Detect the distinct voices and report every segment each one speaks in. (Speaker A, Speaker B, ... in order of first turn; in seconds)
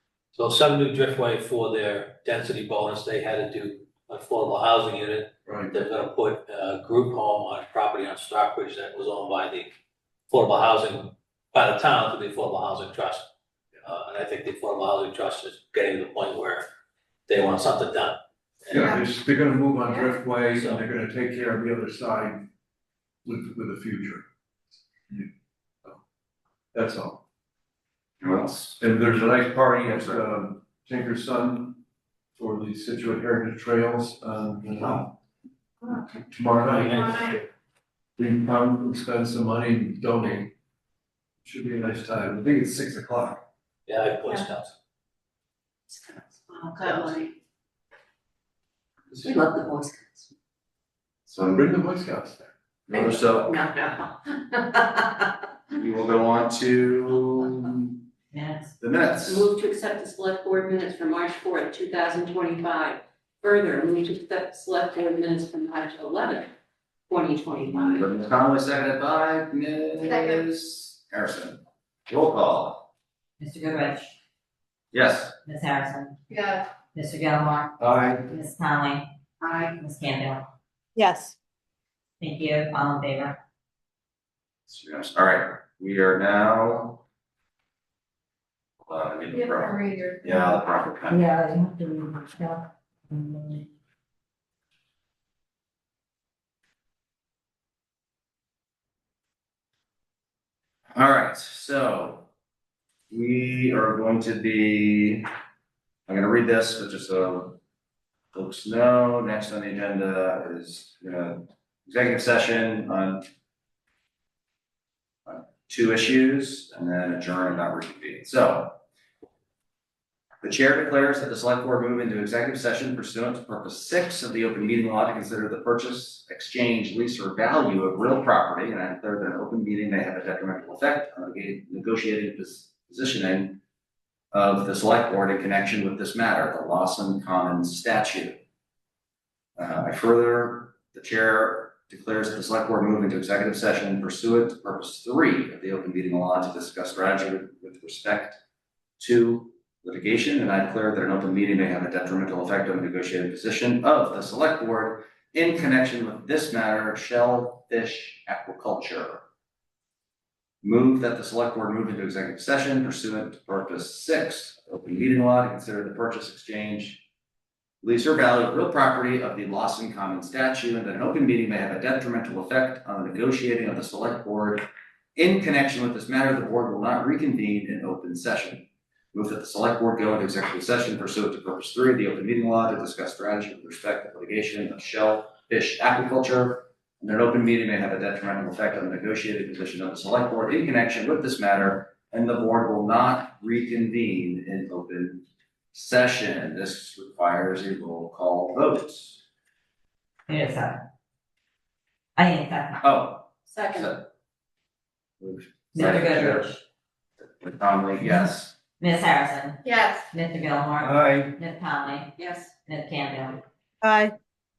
Speaker A: 0.3-9.7, 10.3-13.3, 13.8-16.7, 17.3-19.0, 20.5-20.8, 36.7-37.4, 43.9-44.7
Speaker B: 5.5-5.7, 18.7-22.4, 23.2-24.2, 26.7-27.2, 28.8-31.8, 32.4-35.1, 36.3-37.2, 38.2-40.5, 41.5-43.4, 51.3-52.5
Speaker C: 28.2-28.8, 51.3-51.6, 52.9-53.5, 55.7-58.0, 58.8-59.5, 67.8-72.9, 74.9-75.3, 77.8-78.2, 84.7-87.0, 88.8-91.2, 101.0-102.3, 103.1-105.3, 106.1-107.6, 108.3-113.3, 115.3-118.8, 120.4-133.6, 134.3-138.4, 139.6-148.4, 149.0-159.2, 160.6-167.0, 167.8-199.2, 202.8-204.1, 205.2-206.6, 207.4-208.6
Speaker D: 46.0-47.3, 49.2-50.2, 52.9-55.3, 59.2-66.5, 67.1-68.0, 70.1-70.4, 76.3-76.6, 79.4-79.7, 89.3-90.4, 203.5-203.9, 209.6-210.1, 212.2-212.5
Speaker E: 58.3-58.7, 73.4-74.2, 75.4-76.2, 76.9-79.1, 79.7-80.5, 82.2-83.4, 91.1-93.6, 200.3-200.8, 202.2-202.8, 205.7-206.6, 208.8-213.4